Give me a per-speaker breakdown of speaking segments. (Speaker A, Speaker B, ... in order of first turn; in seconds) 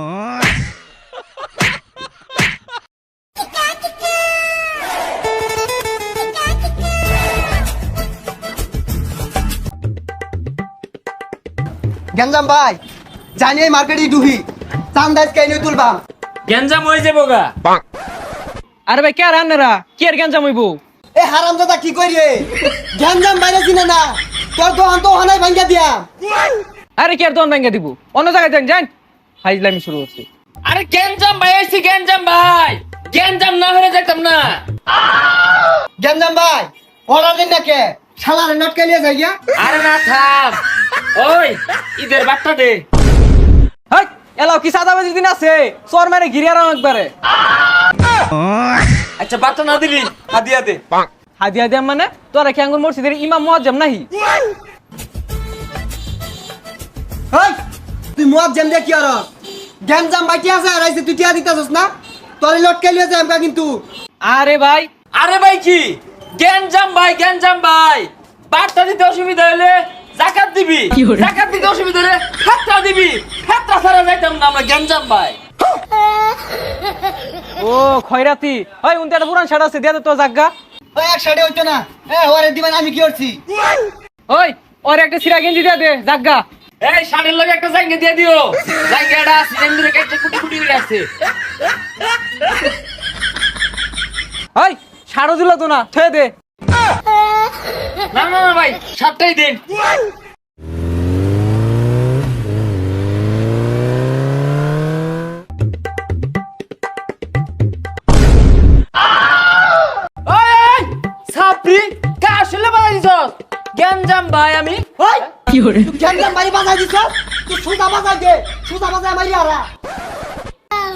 Speaker A: 12.1-12.8, 13.3-16.0, 21.1-26.1, 36.0-39.3, 58.2-59.2, 59.8-61.9, 62.4-63.8, 80.9-83.4, 115.0-119.7
Speaker B: 16.5-17.5, 30.6-35.3, 39.6-40.6, 41.1-42.8, 49.2-50.8, 65.1-75.4, 86.8-91.1, 98.1-99.6, 110.2-115.1
Speaker C: 18.9-20.8, 27.0-28.9, 29.4-30.2, 43.9-47.1, 51.4-54.1, 64.2-64.9, 77.6-80.5, 84.3-86.4, 94.5-96.3